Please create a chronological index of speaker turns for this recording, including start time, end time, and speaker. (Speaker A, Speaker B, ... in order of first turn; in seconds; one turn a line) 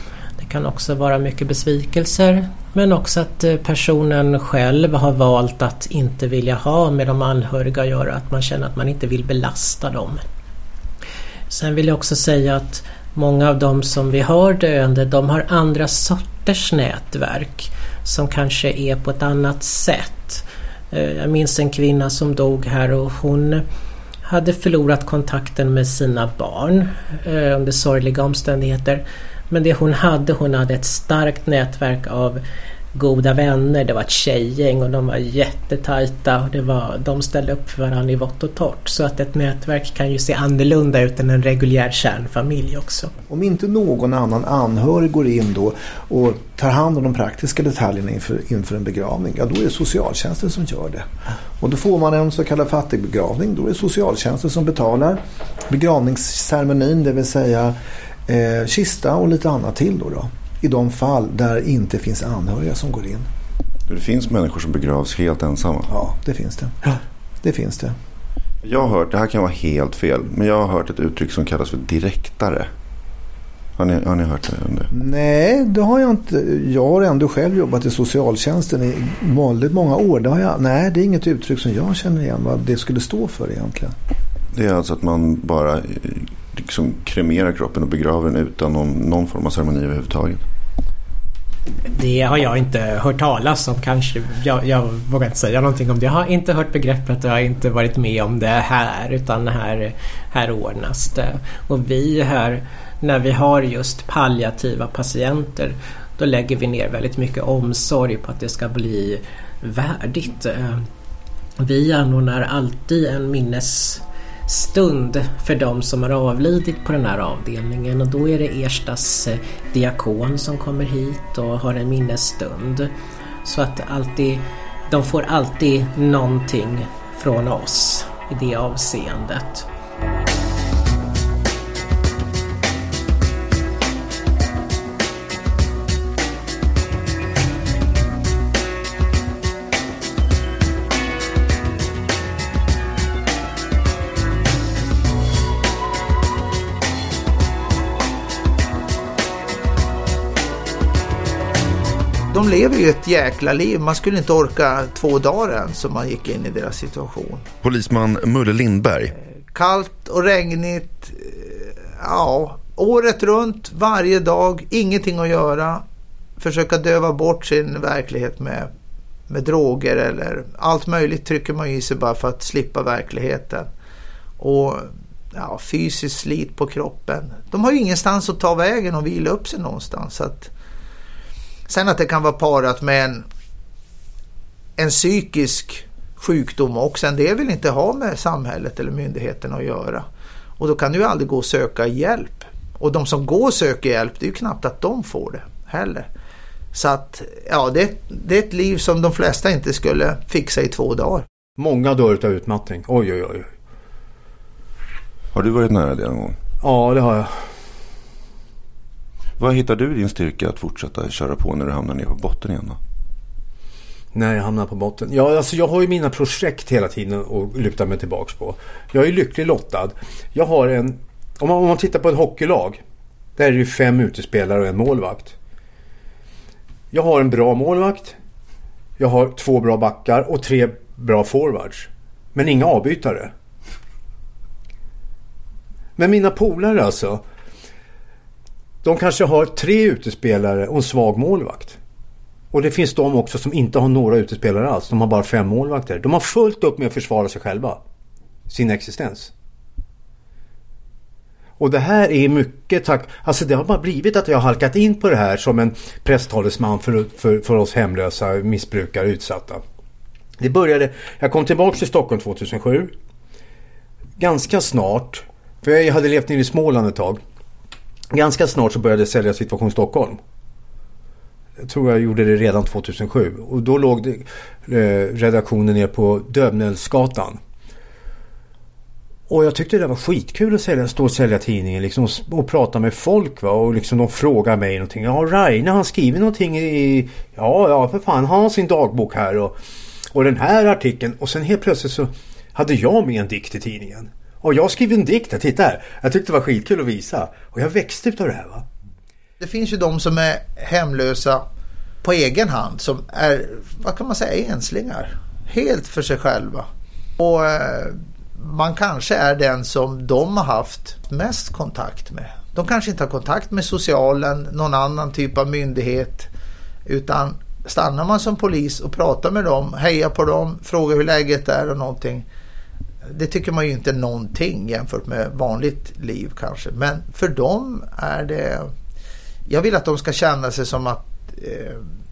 Speaker A: 0.4-10.2
Speaker A: 11.5-23.6
Speaker A: 24.2-32.4
Speaker A: 33.0-43.1
Speaker B: 43.3-51.1
Speaker B: 51.6-57.8
Speaker B: 58.3-63.3
Speaker C: 63.9-65.9
Speaker B: 65.9-66.9
Speaker B: 67.4-68.0
Speaker C: 68.6-72.7
Speaker C: 73.8-74.9
Speaker B: 74.9-83.9
Speaker C: 84.5-90.4
Speaker A: 91.9-110.9
Speaker A: 111.6-122.9
Speaker A: 123.4-129.7
Speaker D: 152.3-157.5
Speaker C: 157.6-159.1
Speaker D: 159.5-165.8
Speaker D: 166.4-168.7
Speaker D: 169.3-173.7
Speaker D: 174.4-180.5
Speaker D: 181.7-183.2
Speaker D: 184.8-190.1
Speaker D: 190.6-196.1
Speaker D: 196.7-201.2
Speaker E: 201.6-203.5
Speaker C: 205.3-206.4
Speaker E: 206.6-207.5
Speaker C: 209.4-212.8
Speaker E: 214.1-222.8
Speaker E: 223.4-225.3
Speaker E: 226.9-228.2
Speaker E: 229.0-233.3
Speaker E: 236.0-237.2
Speaker E: 238.8-241.8
Speaker E: 242.5-247.8
Speaker E: 248.5-249.3
Speaker E: 251.6-259.6
Speaker E: 260.4-262.9
Speaker E: 264.2-267.2
Speaker E: 268.1-270.2
Speaker E: 271.6-277.4
Speaker E: 279.3-289.6
Speaker E: 290.1-298.6
Speaker D: 299.4-301.4
Speaker D: 302.0-306.7
Speaker D: 307.2-316.3
Speaker D: 316.9-322.2
Speaker D: 323.1-328.7
Speaker D: 329.5-331.9